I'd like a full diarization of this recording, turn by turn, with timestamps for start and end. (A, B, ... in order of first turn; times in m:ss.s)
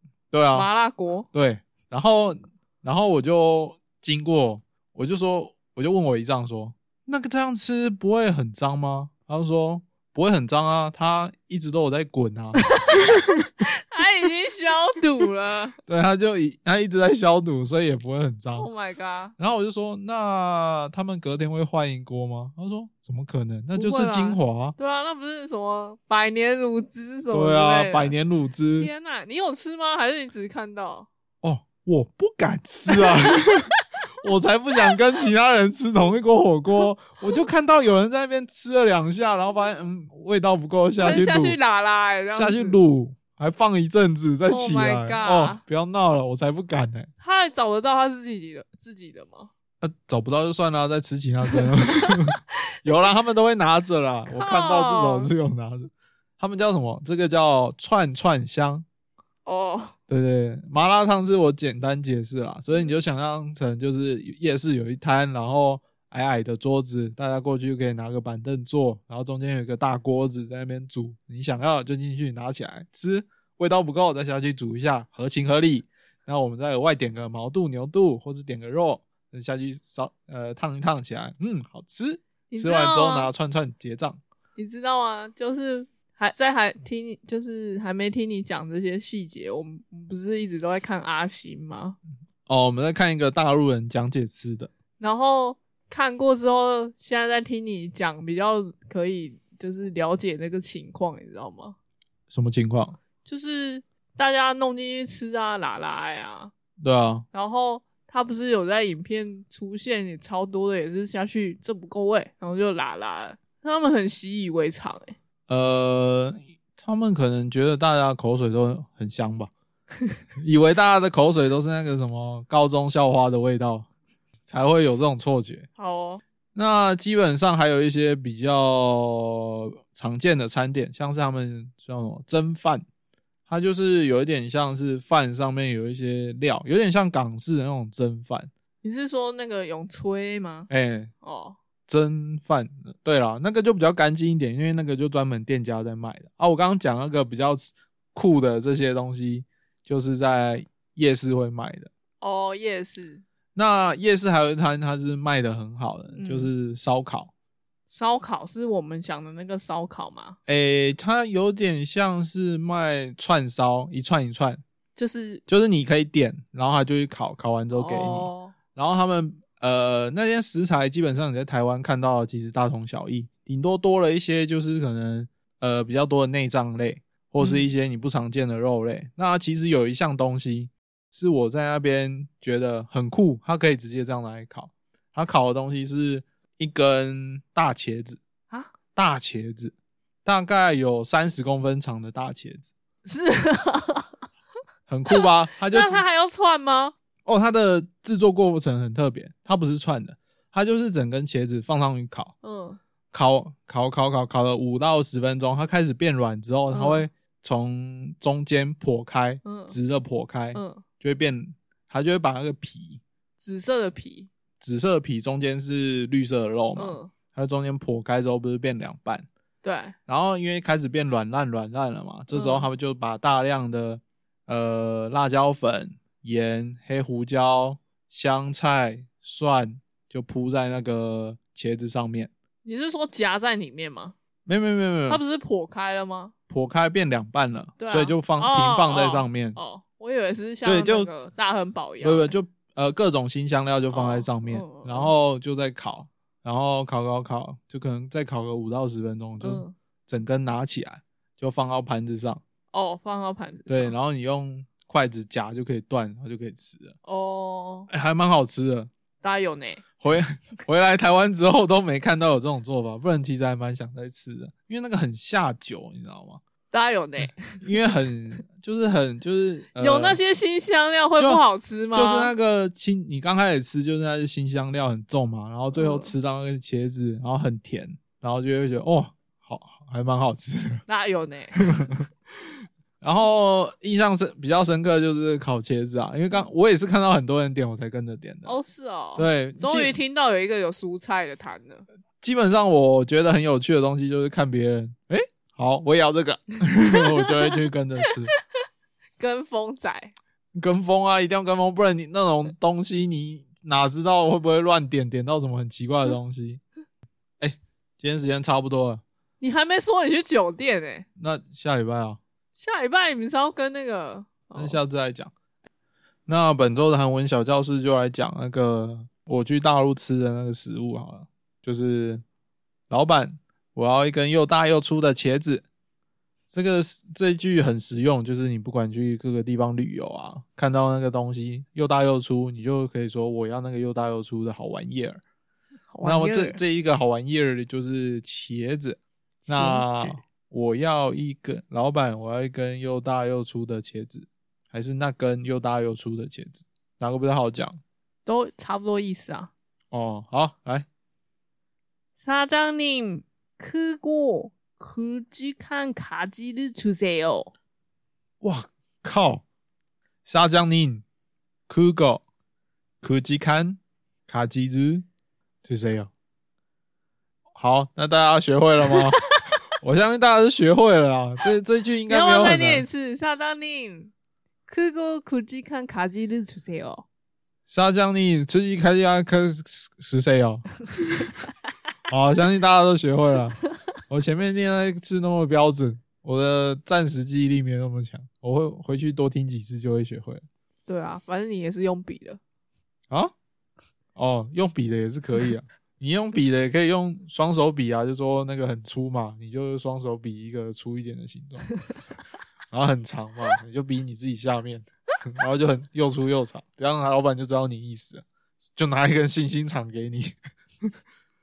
0:00.3-0:00.7 A
0:00.5-0:01.3 B
0:01.3-0:13.5 A
0:12.6-0:15.8 B
0:15.9-0:18.7 A
0:18.6-0:19.4 B
0:19.4-0:24.8 A
0:23.8-0:28.2 B
0:27.3-0:28.9 A
0:28.8-0:31.1 B
0:31.4-0:33.7 A
0:32.9-0:33.8 B
0:34.2-0:41.6 A
0:41.0-0:42.8 B
0:42.3-0:47.1 A
0:44.5-0:45.6 B
0:47.2-0:49.5 B
0:49.8-0:58.8 A
0:51.5-0:52.4 B
0:54.3-0:55.3 B
0:59.5-1:00.0 B
1:00.1-1:24.2 A
1:22.5-1:23.3 B
1:24.6-1:32.0 B
1:32.5-1:34.7 A
1:35.0-1:41.8 B
1:42.3-1:43.0 A
1:43.2-1:46.5 B
1:46.8-1:47.2 A
1:47.3-1:55.2 B
1:55.5-1:59.5 A
2:00.4-2:03.9 A
2:04.5-2:05.7 A
2:05.8-2:06.2 B
2:06.6-2:12.8 A
2:13.5-2:18.5 A
2:18.8-2:20.7 B
2:20.7-2:21.1 A
2:21.2-2:21.6 B
2:21.9-2:31.9 A
2:32.2-2:33.2 B
2:33.6-2:37.3 A
2:36.2-2:36.5 B
2:37.9-2:40.4 B
2:40.5-2:44.6 A
2:45.0-2:45.4 B
2:45.5-3:08.2 A
2:47.7-2:48.6 B
2:57.4-2:57.7 B
3:09.0-3:12.7 A
3:13.0-3:14.2 B
3:14.9-3:16.0 A
3:15.1-3:17.0 B
3:17.3-3:22.4 A
3:22.4-3:22.8 B
3:23.1-3:33.0 A
3:26.7-3:27.1 B
3:29.4-3:29.8 B
3:30.6-3:30.8 B
3:33.4-3:34.3 B
3:34.6-3:39.3 A
3:36.8-3:37.1 B
3:39.6-3:40.0 B
3:40.1-3:52.3 A
3:42.3-3:42.7 B
3:52.6-3:54.2 B
3:54.5-3:55.2 A
3:55.1-3:56.3 B
3:56.5-3:59.6 A
3:57.8-4:02.3 B
4:00.6-4:01.1 A
4:02.0-4:12.4 A
4:03.9-4:05.1 B
4:09.4-4:09.8 B
4:12.7-4:14.0 B
4:13.7-4:17.0 A
4:17.0-4:17.9 B
4:17.9-4:18.9 A
4:19.2-4:19.8 B
4:20.0-4:26.4 A
4:26.7-4:27.6 B
4:27.2-4:30.2 A
4:29.8-4:32.3 B
4:31.2-4:40.8 A
4:35.7-4:36.2 B
4:40.9-4:41.7 B
4:41.6-4:42.5 A
4:43.0-4:48.6 A
4:48.4-4:51.8 B
4:49.2-4:50.0 A
4:52.2-4:58.3 A
4:57.2-4:57.6 B
4:59.2-5:00.1 B
5:00.6-5:06.6 A
5:07.4-5:09.0 A
5:09.4-5:11.1 B
5:11.2-5:12.2 A
5:12.6-5:14.8 B
5:14.6-5:15.3 A
5:16.3-5:22.2 A
5:22.9-5:25.7 A
5:26.5-5:35.2 A
5:35.9-5:36.6 B
5:36.0-5:47.8 A
5:39.5-5:40.2 B
5:48.3-5:49.5 B
5:49.9-5:50.9 A
5:52.2-5:57.5 B
5:58.4-5:59.4 A
6:00.2-6:01.0 A
6:01.7-6:02.2 A
6:03.0-6:05.0 A
6:05.6-6:06.1 A
6:07.6-6:09.2 A
6:08.9-6:09.6 B
6:09.8-6:12.9 A
6:12.1-6:14.1 B
6:14.7-6:17.1 B
6:17.7-6:21.3 A
6:22.1-6:23.6 A
6:24.1-6:30.4 A
6:30.9-6:32.4 B
6:34.2-6:41.7 A
6:42.7-6:48.2 A
6:48.8-6:50.9 A